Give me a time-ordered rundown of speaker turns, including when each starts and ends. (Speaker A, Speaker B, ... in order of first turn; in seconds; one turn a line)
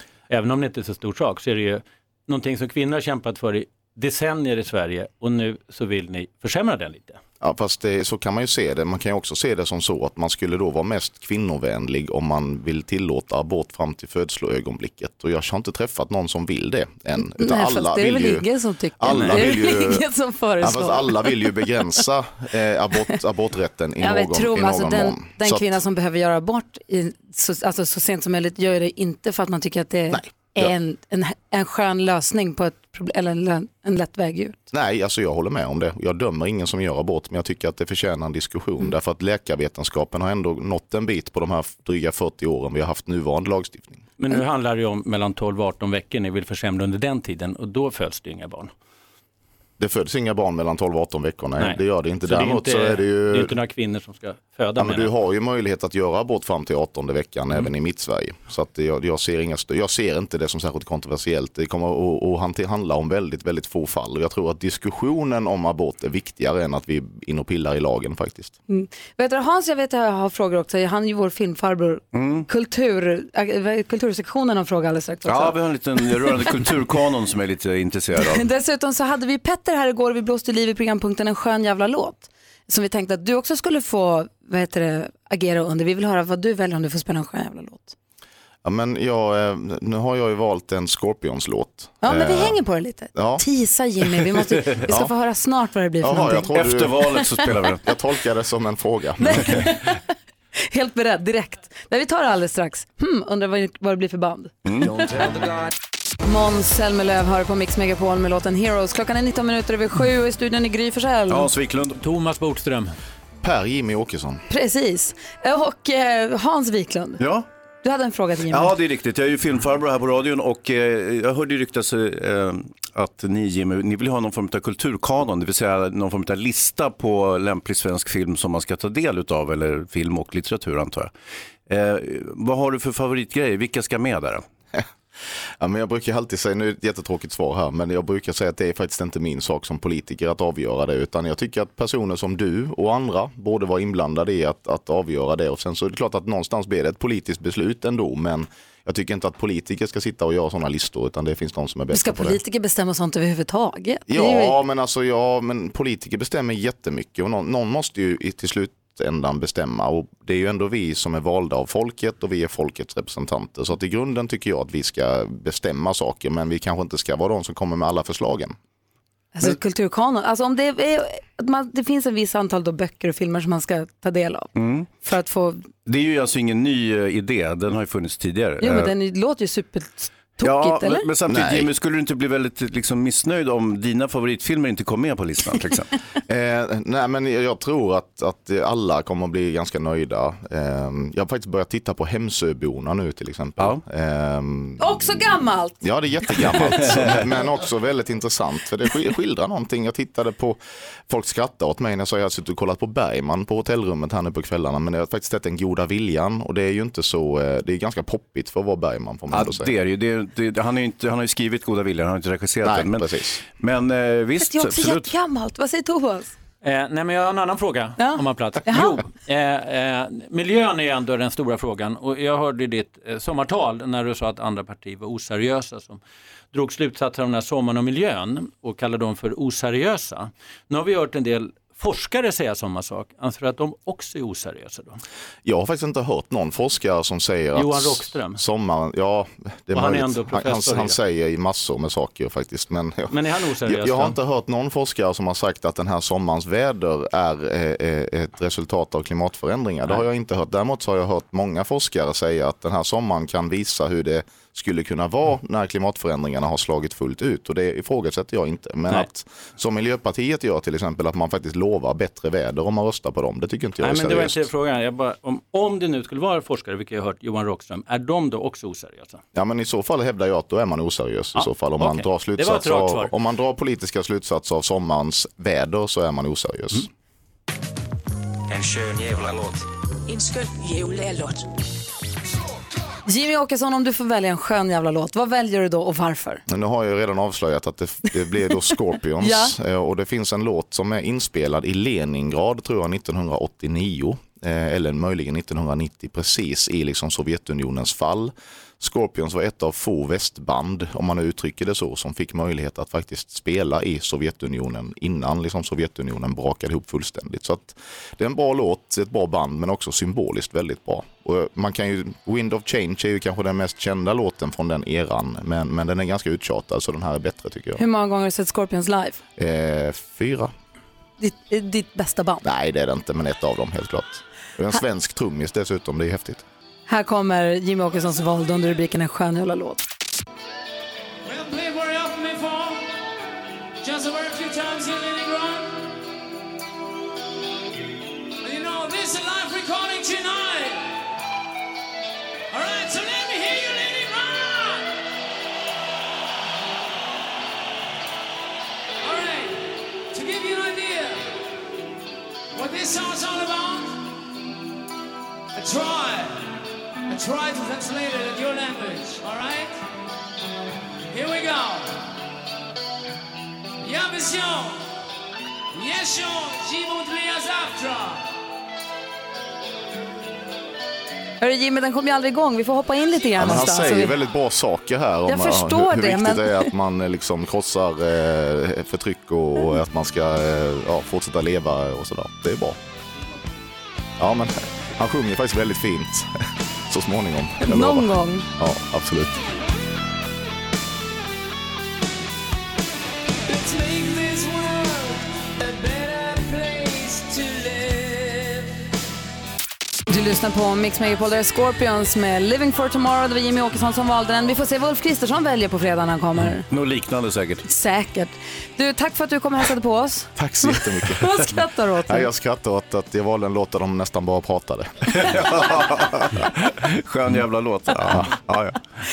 Speaker A: 0.3-7.2
Speaker B: 7.4-18.5
Speaker C: 17.2-21.7
Speaker B: 19.0-20.1
Speaker B: 20.6-25.8
Speaker C: 24.0-34.6
Speaker B: 30.1-30.7
Speaker B: 34.7-44.0
Speaker A: 44.2-48.7
Speaker B: 49.8-53.5
Speaker A: 51.6-55.1
Speaker B: 54.8-68.6
Speaker C: 68.7-75.6
Speaker D: 72.1-72.5
Speaker D: 75.2-78.5
Speaker C: 78.2-88.0
Speaker B: 88.6-92.6
Speaker C: 92.0-96.5
Speaker B: 93.2-93.4
Speaker B: 94.8-95.1
Speaker B: 96.0-97.0
Speaker D: 96.5-97.8
Speaker C: 97.1-97.5
Speaker B: 97.8-99.6
Speaker C: 99.2-100.0
Speaker C: 100.6-105.3
Speaker D: 104.7-104.9
Speaker C: 106.2-111.5
Speaker D: 111.3-112.0
Speaker A: 112.0-113.0
Speaker B: 113.4-114.4
Speaker C: 114.5-117.2
Speaker D: 117.2-117.5
Speaker C: 117.8-118.8
Speaker D: 118.5-131.1
Speaker D: 131.7-134.4
Speaker B: 135.6-152.4
Speaker C: 151.9-154.6
Speaker B: 154.1-168.6
Speaker C: 169.3-175.7
Speaker D: 174.6-174.9
Speaker D: 175.9-178.9
Speaker C: 178.6-181.1
Speaker D: 180.4-185.9
Speaker B: 181.3-181.7
Speaker B: 186.3-195.3
Speaker C: 194.8-195.8
Speaker B: 195.8-209.7
Speaker D: 209.3-215.1
Speaker B: 212.6-213.4
Speaker C: 214.4-216.3
Speaker A: 216.6-226.0
Speaker C: 218.0-219.0
Speaker A: 226.5-235.0
Speaker B: 235.4-264.4
Speaker A: 237.5-238.4
Speaker A: 239.7-241.0
Speaker A: 243.1-244.2
Speaker A: 263.8-269.2
Speaker B: 269.4-276.9
Speaker A: 271.4-273.1
Speaker C: 283.1-286.4
Speaker B: 286.5-317.8
Speaker C: 289.2-289.5
Speaker C: 317.8-319.2
Speaker B: 319.4-320.5
Speaker C: 321.2-322.4
Speaker B: 322.4-326.4
Speaker C: 326.9-329.8
Speaker E: 331.2-332.9
Speaker E: 333.8-335.9
Speaker E: 338.4-341.1
Speaker E: 342.5-345.0
Speaker E: 349.0-351.4
Speaker E: 352.5-354.2
Speaker E: 355.6-359.8
Speaker E: 361.1-362.1
Speaker E: 363.8-364.9
Speaker E: 365.7-368.3
Speaker C: 371.4-374.1
Speaker B: 373.4-382.8
Speaker C: 375.3-376.7
Speaker B: 384.2-386.3
Speaker B: 386.9-389.4
Speaker C: 387.6-388.5
Speaker E: 393.5-398.8
Speaker C: 400.1-406.7
Speaker D: 406.7-407.7
Speaker C: 407.6-412.3
Speaker B: 410.4-411.4
Speaker B: 412.1-415.5
Speaker D: 415.1-418.8